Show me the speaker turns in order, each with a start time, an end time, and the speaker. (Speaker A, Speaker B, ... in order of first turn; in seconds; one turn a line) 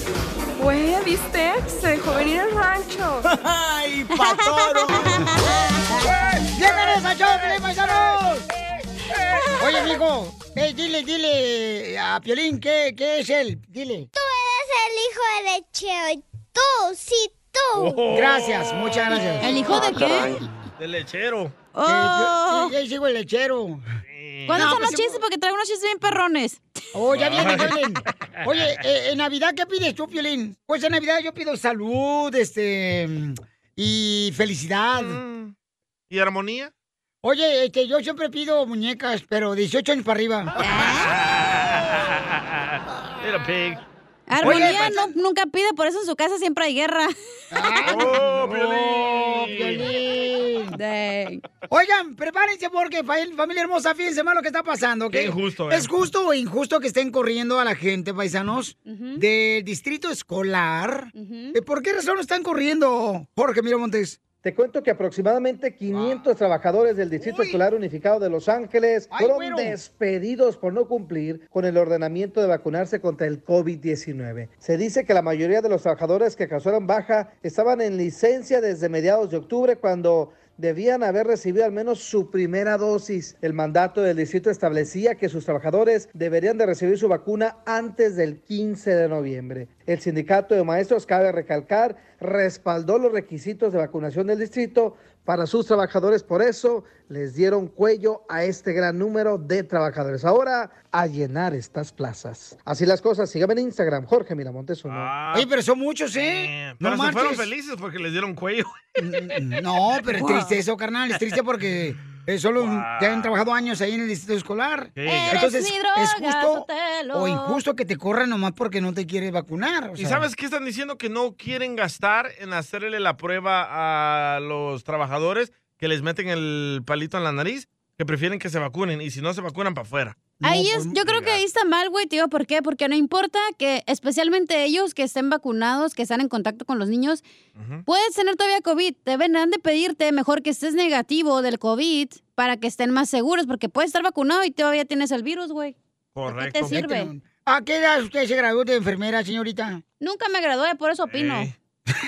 Speaker A: 0.6-3.3
Speaker B: 3.4-5.4
Speaker C: 4.2-6.1
Speaker B: 6.4-8.4
Speaker B: 9.6-14.1
Speaker D: 14.1-18.0
Speaker E: 17.7-19.8
Speaker B: 18.1-20.4
Speaker C: 19.4-20.4
Speaker E: 20.8-21.5
Speaker C: 21.7-22.7
Speaker B: 21.9-23.8
Speaker E: 24.1-24.8
Speaker C: 24.5-26.6
Speaker B: 24.5-25.2
Speaker B: 26.9-35.2
Speaker E: 27.1-27.8
Speaker E: 35.0-35.5
Speaker E: 36.1-36.7
Speaker B: 37.2-40.5
Speaker C: 40.6-41.2
Speaker E: 41.0-43.8
Speaker C: 44.3-48.0
Speaker B: 44.4-45.1
Speaker E: 44.4-44.8
Speaker B: 47.5-50.8
Speaker E: 47.8-49.9
Speaker C: 50.7-51.4
Speaker B: 51.7-64.2
Speaker E: 55.1-55.9
Speaker C: 58.9-59.2
Speaker C: 61.1-61.6
Speaker F: 64.4-105.1
Speaker B: 65.9-66.2
Speaker B: 67.2-67.6
Speaker B: 69.1-69.8
Speaker E: 104.9-105.5
Speaker B: 105.3-107.5
Speaker E: 106.1-109.3
Speaker B: 109.0-120.2
Speaker C: 110.1-110.5
Speaker E: 112.6-113.3
Speaker E: 115.0-115.5
Speaker C: 115.0-117.6
Speaker E: 120.0-130.2
Speaker B: 130.4-131.0
Speaker C: 130.4-137.2
Speaker E: 131.1-131.4
Speaker E: 137.5-137.8
Speaker C: 137.8-145.8
Speaker E: 146.1-146.8
Speaker C: 146.3-147.1
Speaker B: 146.7-149.8
Speaker C: 150.0-151.5
Speaker E: 151.1-151.5